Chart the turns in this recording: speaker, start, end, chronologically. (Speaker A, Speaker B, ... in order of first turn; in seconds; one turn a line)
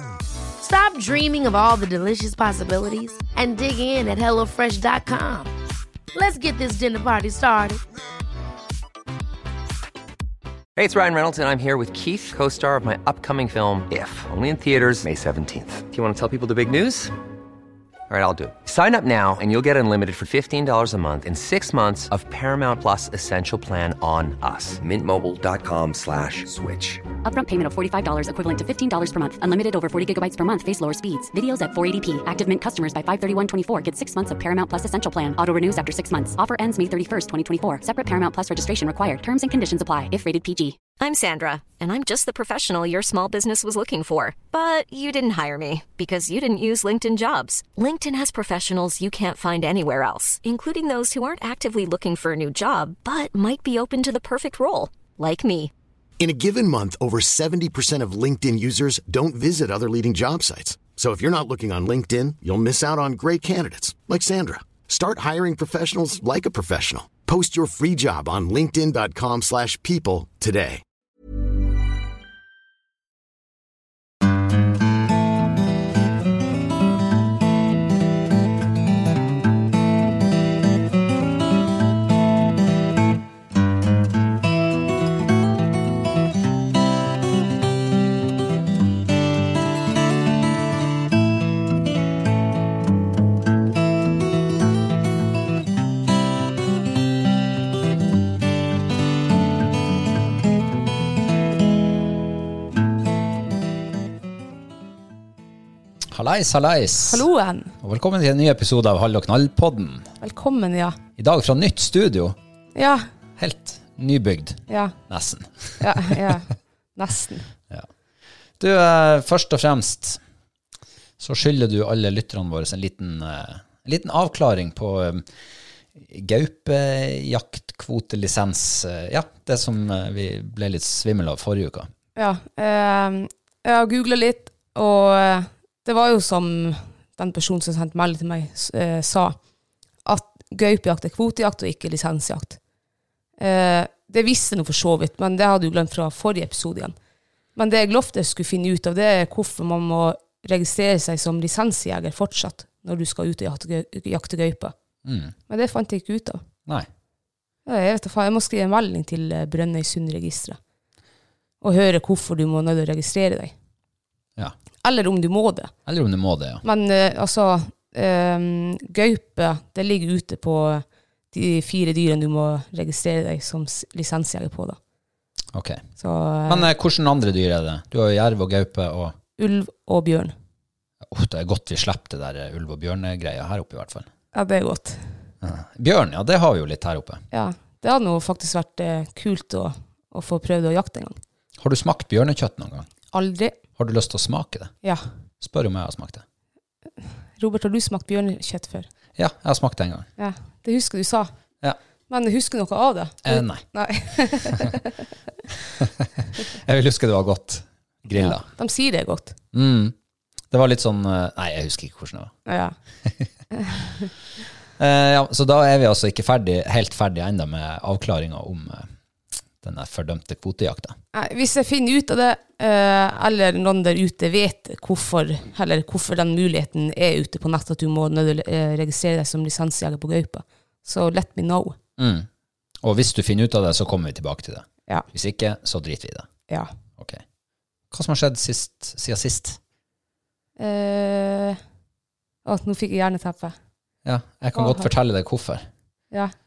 Speaker A: 0.6-5.5
Speaker A: 6.1-7.8
Speaker B: 10.8-17.1
Speaker B: 18.1-27.0
Speaker C: 27.2-40.8
Speaker D: 41.0-55.7
Speaker E: 56.2-70.8
Speaker F: 106.1-107.2
Speaker G: 107.0-107.7
Speaker F: 107.8-110.1
Speaker G: 110.2-111.0
Speaker F: 111.2-112.3
Speaker G: 112.7-113.0
Speaker F: 113.4-116.4
Speaker G: 114.7-114.9
Speaker G: 115.8-117.5
Speaker F: 118.6-120.2
Speaker F: 121.2-125.3
Speaker F: 125.9-131.9
Speaker G: 132.2-139.4
Speaker G: 140.0-142.6
Speaker G: 143.4-146.9
Speaker G: 147.6-154.7
Speaker F: 155.0-155.3
Speaker G: 155.5-156.4
Speaker G: 157.7-160.6
Speaker G: 161.6-163.5
Speaker G: 164.8-165.7
Speaker F: 165.8-166.6
Speaker G: 166.6-174.8
Speaker F: 175.5-175.8
Speaker G: 176.0-176.7
Speaker F: 176.4-179.2
Speaker G: 179.4-180.3
Speaker F: 181.0-184.1
Speaker G: 184.3-185.0
Speaker F: 185.4-187.2
Speaker G: 187.3-191.2
Speaker F: 191.6-192.9
Speaker G: 193.1-193.5
Speaker F: 193.8-194.7
Speaker F: 195.4-196.2
Speaker G: 197.4-198.9
Speaker F: 199.2-200.1
Speaker G: 200.2-201.3
Speaker G: 202.1-204.9
Speaker F: 203.2-203.6
Speaker F: 204.2-204.7
Speaker F: 205.8-208.5
Speaker G: 208.1-209.3
Speaker F: 209.5-209.9
Speaker F: 210.5-212.3
Speaker G: 212.4-212.7
Speaker G: 213.6-214.1
Speaker F: 214.8-218.9
Speaker F: 219.6-220.9
Speaker G: 221.1-231.8
Speaker F: 232.0-232.3
Speaker F: 232.8-236.3
Speaker F: 237.0-237.2
Speaker F: 237.9-239.6
Speaker G: 240.6-241.6
Speaker G: 242.4-243.6
Speaker F: 244.0-245.7
Speaker G: 244.5-244.9